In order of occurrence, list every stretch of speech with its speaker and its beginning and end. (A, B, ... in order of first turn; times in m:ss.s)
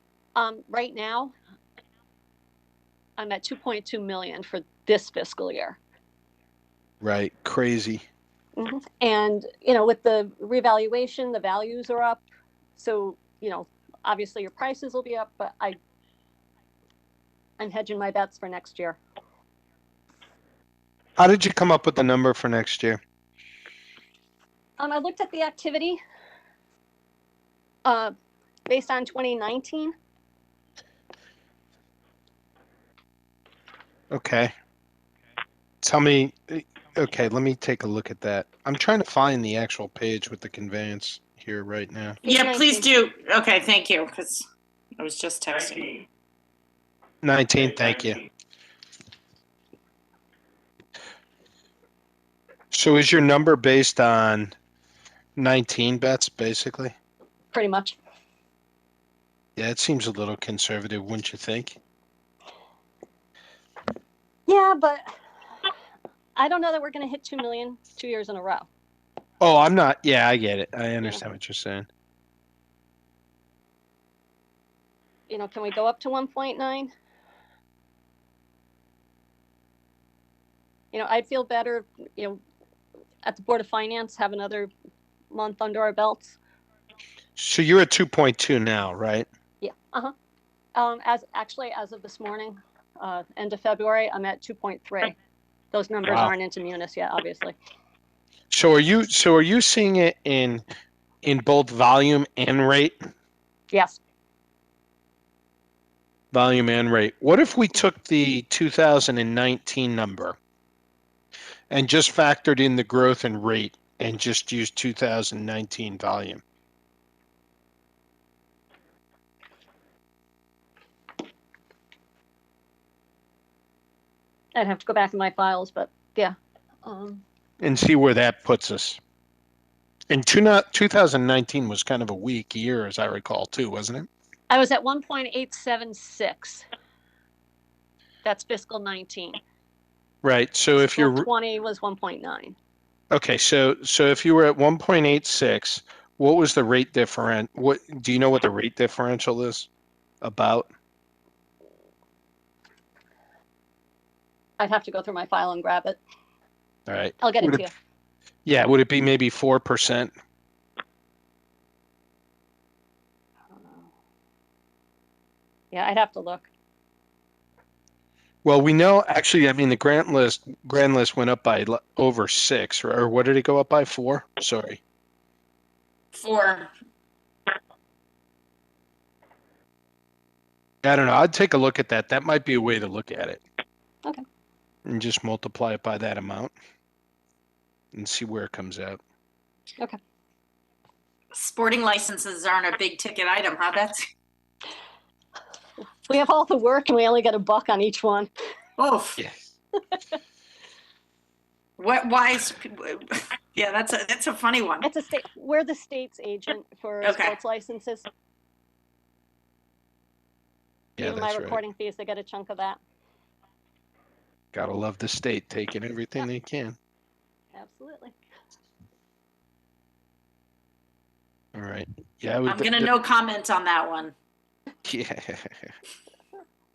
0:00.4-0:01.3 A
0:03.2-0:05.8 A
0:07.0-0:08.0 B
0:08.6-0:12.2 A
0:12.8-0:15.8 A
0:17.6-0:19.0 A
0:21.2-0:23.0 B
0:24.8-0:26.0 A
0:27.8-0:28.1 A
0:28.7-0:29.9 A
0:34.1-0:34.5 B
0:35.8-0:42.2 B
0:42.2-0:42.9 A
0:42.2-0:44.4 C
0:45.0-0:46.0 C
0:47.2-0:48.2 B
0:52.7-0:54.5 B
0:55.4-0:56.9 B
0:57.5-0:58.0 A
0:59.6-1:01.8 B
1:04.5-1:05.1 A
1:06.4-1:08.7 A
1:09.4-1:11.9 B
1:15.3-1:16.9 A
1:20.9-1:22.4 A
1:23.2-1:24.7 A
1:25.3-1:26.4 A
1:27.4-1:29.3 B
1:29.6-1:30.1 A
1:30.7-1:35.1 A
1:35.7-1:37.6 A
1:36.0-1:36.3 B
1:38.5-1:40.6 B
1:41.2-1:43.0 B
1:43.7-1:44.0 A
1:46.3-1:50.4 B
1:51.7-1:56.4 B
2:04.6-2:07.2 A
2:07.6-2:09.0 B
2:10.1-2:14.1 B
2:14.5-2:16.6 A
2:18.2-2:19.4 A
2:20.2-2:21.3 B
2:20.9-2:22.6 A
2:23.1-2:29.7 B
2:30.2-2:30.7 B
2:34.6-2:36.0 A
2:36.9-2:37.6 B
2:37.2-2:37.7 A
2:38.4-2:40.1 B
2:45.7-2:46.5 A
2:48.4-2:54.8 B
2:56.1-2:56.7 C
3:00.8-3:03.4 B
3:04.8-3:06.5 B
3:07.9-3:09.0 B
3:11.3-3:14.0 C
3:16.1-3:18.3 A
3:18.8-3:19.2 C
3:19.2-3:19.5 B
3:21.8-3:24.9 C
3:24.8-3:28.1 A
3:27.0-3:27.4 C
3:31.0-3:31.6 B
3:31.0-3:32.8 A
3:34.5-3:36.8 B
3:37.5-3:38.2 A
3:41.5-3:42.9 B
3:42.5-3:44.1 C
3:44.8-3:45.7 B